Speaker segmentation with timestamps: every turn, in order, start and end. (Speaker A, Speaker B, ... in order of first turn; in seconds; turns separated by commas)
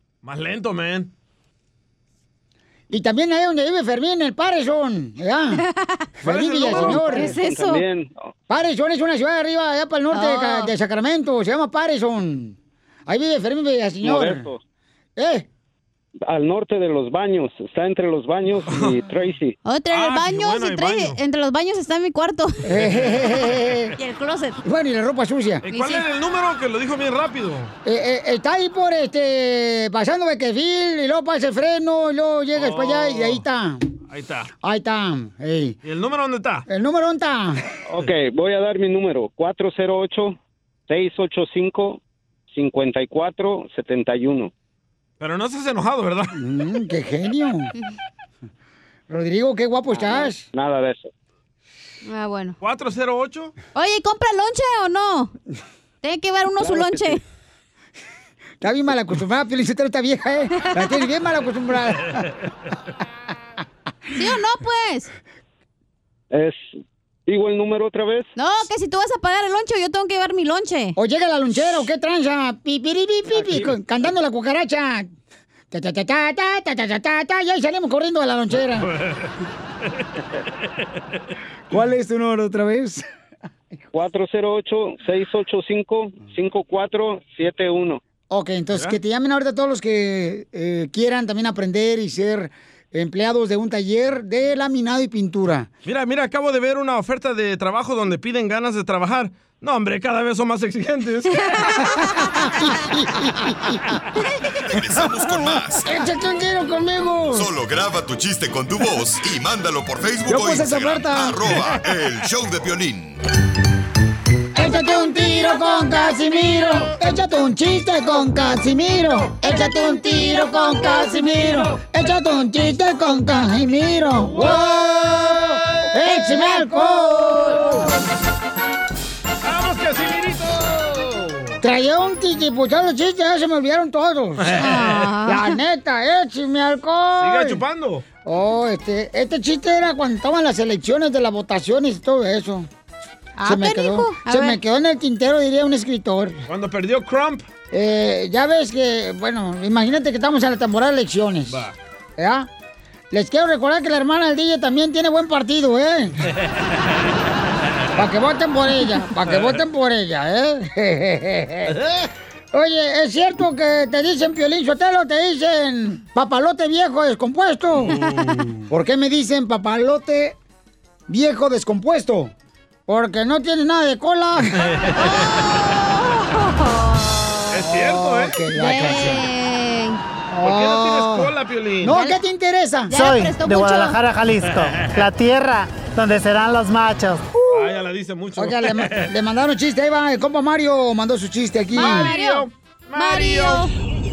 Speaker A: 0.2-1.1, Speaker B: 2.9-5.6, Speaker C: 5.8-6.0, Speaker B: 6.2-7.3, Speaker A: 6.2-7.3, Speaker C: 6.7-7.8, Speaker D: 7.3-8.3, Speaker B: 8.5-12.5, Speaker C: 10.1-10.7, Speaker B: 13.1-14.5, Speaker D: 14.0-14.6, Speaker B: 15.2-15.4, Speaker D: 16.2-19.6, Speaker A: 18.7-19.0, Speaker C: 19.6-22.6, Speaker A: 19.9-21.2, Speaker B: 22.6-23.9, Speaker A: 22.8-23.3, Speaker C: 23.9-24.6, Speaker B: 24.6-25.6, Speaker A: 25.6-27.7, Speaker C: 25.7-26.1, Speaker B: 27.8-33.9, Speaker A: 32.5-33.4, Speaker A: 34.1-34.5, Speaker B: 34.6-35.8, Speaker A: 35.8-36.6, Speaker B: 36.7-37.6, Speaker D: 37.9-42.0, Speaker D: 42.5-44.5, Speaker A: 45.2-46.4, Speaker B: 46.4-47.7, Speaker B: 49.1-50.5, Speaker D: 49.9-51.1, Speaker C: 52.0-52.6, Speaker A: 52.6-53.5, Speaker C: 53.7-55.3, Speaker C: 56.0-57.2, Speaker D: 56.6-57.2, Speaker B: 58.6-62.3, Speaker C: 60.6-60.9, Speaker C: 64.1-65.1, Speaker D: 66.3-68.3, Speaker C: 68.3-71.0, Speaker B: 71.0-75.1, Speaker B: 75.7-78.9, Speaker A: 78.8-79.3, Speaker B: 81.7-83.0, Speaker D: 83.9-88.0, Speaker B: 88.3-95.7, Speaker A: 95.8-101.5, Speaker B: 101.8-103.9, Speaker E: 104.6-105.9, Speaker B: 105.7-107.5, Speaker E: 107.3-113.2, Speaker B: 110.3-111.6, Speaker B: 114.5-128.0, Speaker A: 121.4-121.7, Speaker A: 124.2-125.6, Speaker C: 126.0-127.7, Speaker A: 129.4-131.6, Speaker B: 131.6-134.6, Speaker A: 134.4-135.1, Speaker C: 134.5-135.6, Speaker B: 135.2-137.6, Speaker A: 137.2-138.0, Speaker B: 138.2-142.7, Speaker C: 143.4-144.6, Speaker B: 143.4-146.4, Speaker A: 146.5-147.4, Speaker B: 147.7-151.6, Speaker A: 151.5-151.7, Speaker B: 152.2-152.5, Speaker B: 153.1-156.2, Speaker B: 157.9-161.8, Speaker A: 159.3-159.6, Speaker A: 161.7-162.0, Speaker B: 162.5-167.9, Speaker A: 167.7-168.5, Speaker B: 168.7-170.3, Speaker B: 171.1-172.3, Speaker B: 172.9-174.7, Speaker A: 174.6-175.6, Speaker C: 175.0-177.6, Speaker A: 177.5-178.4, Speaker B: 177.7-179.2, Speaker C: 178.5-180.0, Speaker B: 180.3-183.0, Speaker A: 180.4-182.0, Speaker C: 182.9-184.0, Speaker F: 182.9-187.2, Speaker A: 184.6-184.9, Speaker B: 187.3-187.8, Speaker A: 187.5-189.1, Speaker B: 188.3-192.1, Speaker A: 191.7-193.7, Speaker C: 191.7-193.7